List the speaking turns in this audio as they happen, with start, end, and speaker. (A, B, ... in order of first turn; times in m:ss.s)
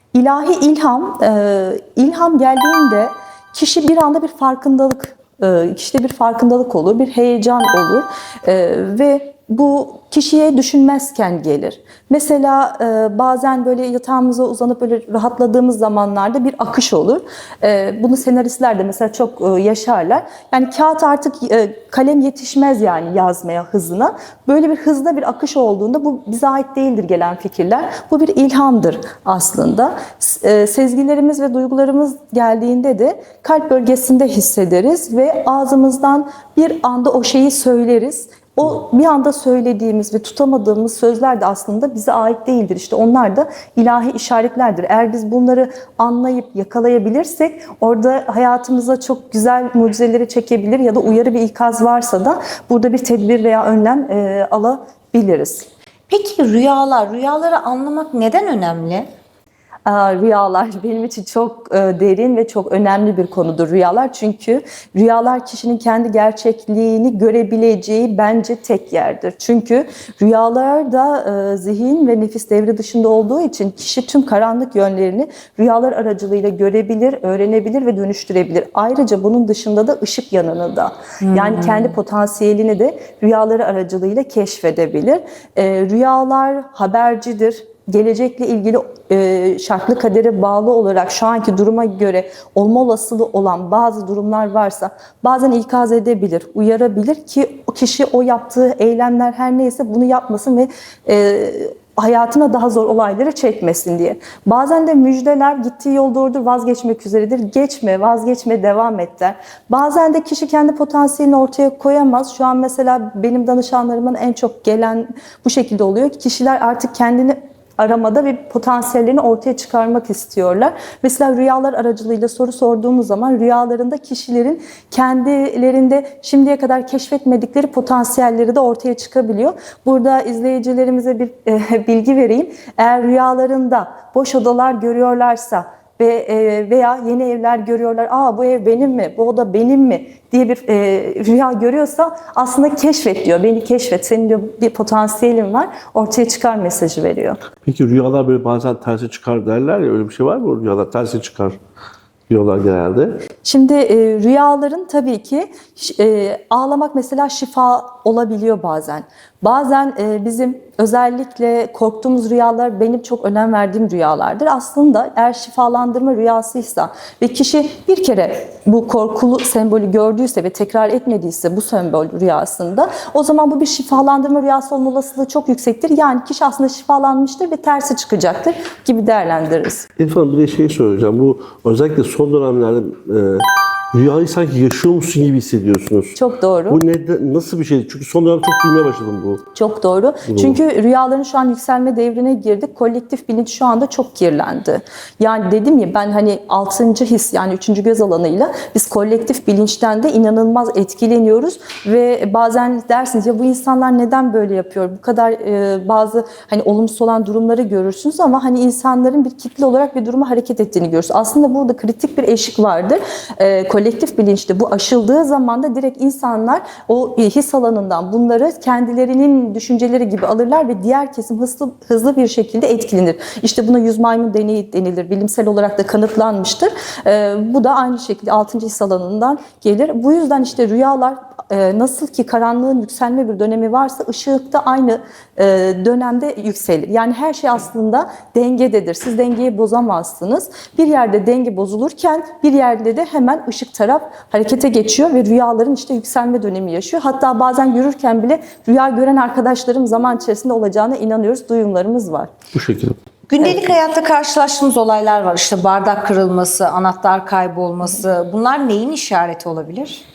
0:00.1-0:55.7 A
0:56.1-0:59.1 B
0:59.8-2:27.4 A
1:21.2-1:21.9 B
2:27.6-2:31.6 C
2:32.3-2:33.2 C
2:33.4-2:59.9 A
3:00.0-3:06.2 C
3:06.2-3:06.8 A
3:06.7-3:09.4 C
3:09.5-4:12.3 A
3:10.3-3:10.6 C
4:12.5-4:13.0 C
4:13.3-4:20.0 B